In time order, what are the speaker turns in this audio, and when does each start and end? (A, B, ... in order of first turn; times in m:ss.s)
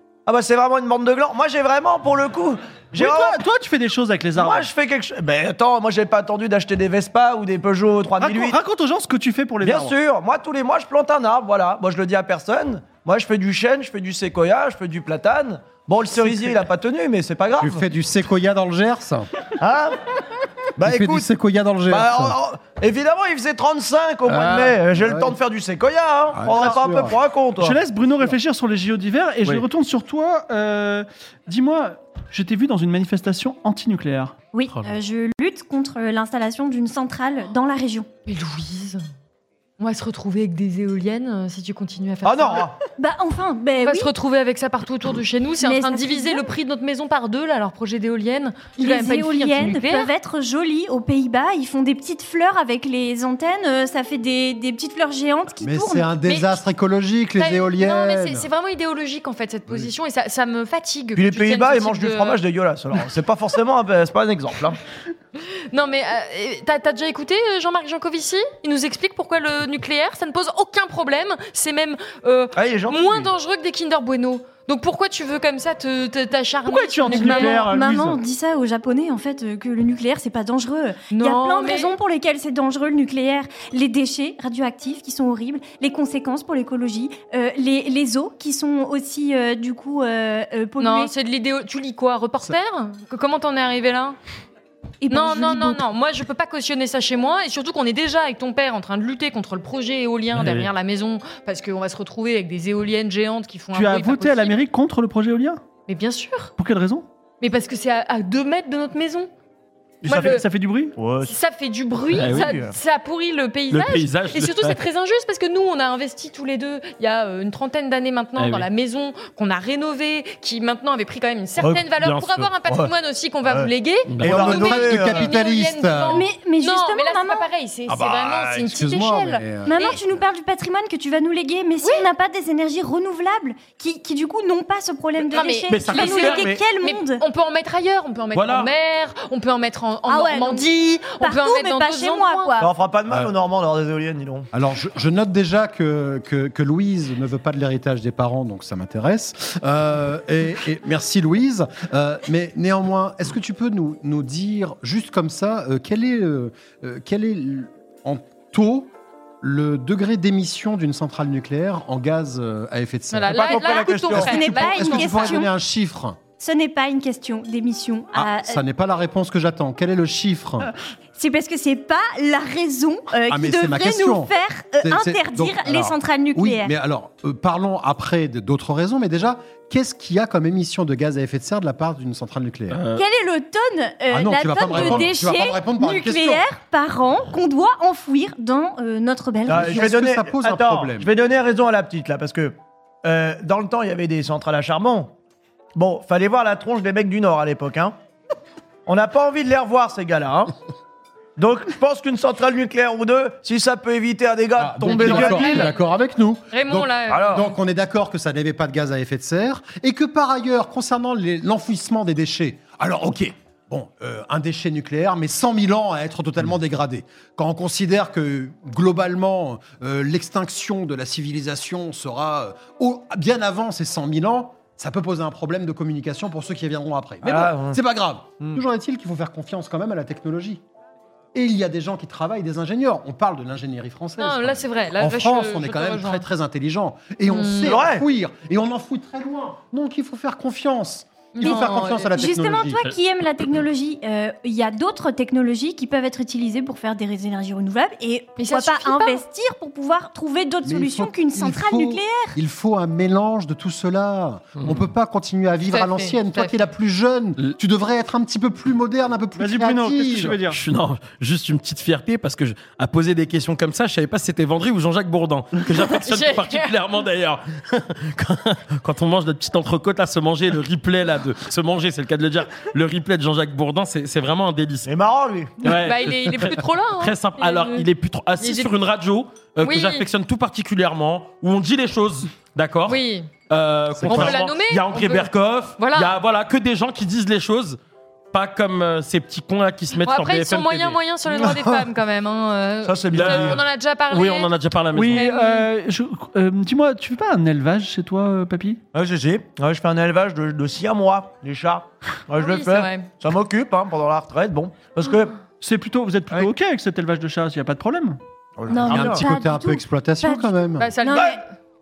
0:00.2-0:03.4 A
0:03.0-0:04.7 B
0:04.4-0:08.6 A
0:08.2-0:09.9 B
0:09.6-0:17.8 A
0:17.6-0:19.4 C
0:19.6-0:20.2 A
0:20.8-0:21.3 A
0:20.8-0:22.4 C
0:21.9-0:27.8 A
0:24.2-0:25.4 C
0:26.3-0:27.2 C
0:27.6-0:34.3 B
0:34.5-0:38.1 D
0:38.2-0:39.0 E
0:39.8-0:42.7 E
0:42.2-0:42.8 A
0:43.0-0:44.1 D
0:43.8-0:50.1 E
0:45.6-0:46.5 D
0:48.8-0:56.4 D
0:55.6-0:58.5 C
0:57.4-1:02.4 E
1:01.2-1:04.8 A
1:05.4-1:17.6 E
1:12.5-1:13.3 A
1:16.6-1:18.2 B
1:17.1-1:31.1 D
1:21.1-1:21.9 E
1:30.8-1:34.2 E
1:35.0-1:35.8 D
1:35.1-1:44.6 E
1:40.3-1:40.7 F
1:43.7-1:45.6 B
1:45.9-1:46.5 E
1:46.6-1:47.0 B
1:47.4-1:49.3 E
1:50.0-1:50.9 B
1:50.0-1:50.4 E
1:50.0-1:50.4 A
1:51.0-1:51.3 A
1:51.2-2:10.0 E
1:52.1-1:52.7 A
1:52.2-1:52.6 F
1:53.7-1:54.8 F
1:58.4-1:58.7 F
2:01.6-2:01.8 A
2:02.0-2:02.5 F
2:04.1-2:04.4 F
2:04.2-2:05.3 A
2:04.2-2:06.2 C
2:06.1-2:07.5 D
2:07.9-2:10.0 C
2:09.6-2:17.2 D
2:15.3-2:22.5 E
2:15.7-2:16.6 F
2:18.3-2:18.7 F
2:20.1-2:22.7 D
2:22.6-2:24.5 A
2:24.5-2:46.2 C
2:43.1-2:45.4 E
2:43.3-2:44.4 A
2:43.7-2:45.5 D
2:46.4-2:48.6 D
2:48.1-2:50.7 C
2:51.2-2:56.7 D
2:53.3-3:02.8 C
3:02.7-3:03.0 F
3:02.9-3:09.8 D
3:04.1-3:06.4 C
3:09.4-3:11.1 C
3:09.5-3:15.1 A
3:15.7-3:18.0 A
3:18.8-3:20.5 A
3:21.4-3:25.7 A
3:24.6-3:50.6 C
3:24.8-3:25.8 E
3:26.5-3:27.4 E
3:27.1-3:27.4 A
3:47.2-3:47.8 A
3:51.3-4:02.8 C
3:54.2-3:56.2 E
3:57.3-3:57.8 E
3:57.6-3:58.0 A
4:01.3-4:02.1 E
4:01.4-4:12.4 D
4:08.4-4:09.2 E
4:10.6-4:20.4 C
4:15.7-4:16.6 E
4:19.4-4:20.6 B
4:20.5-4:34.9 F
4:26.0-4:26.7 E
4:34.8-4:35.5 A
4:35.6-4:47.8 F
4:35.6-4:37.8 E
4:38.4-4:38.7 E
4:39.6-4:40.1 E
4:42.9-4:43.3 E
4:44.0-4:44.4 C
4:44.0-4:46.1 E
4:48.3-4:51.0 F
4:50.0-4:54.5 E
4:52.8-4:53.6 A
4:53.1-4:55.2 F
4:54.9-4:58.8 B
4:55.1-4:55.7 E
4:58.9-5:05.4 A
5:02.4-5:03.1 E
5:05.6-5:08.2 B
5:08.6-5:09.2 A
5:08.7-5:11.4 D
5:08.9-5:10.9 C
5:10.8-5:11.4 E
5:11.1-5:11.4 A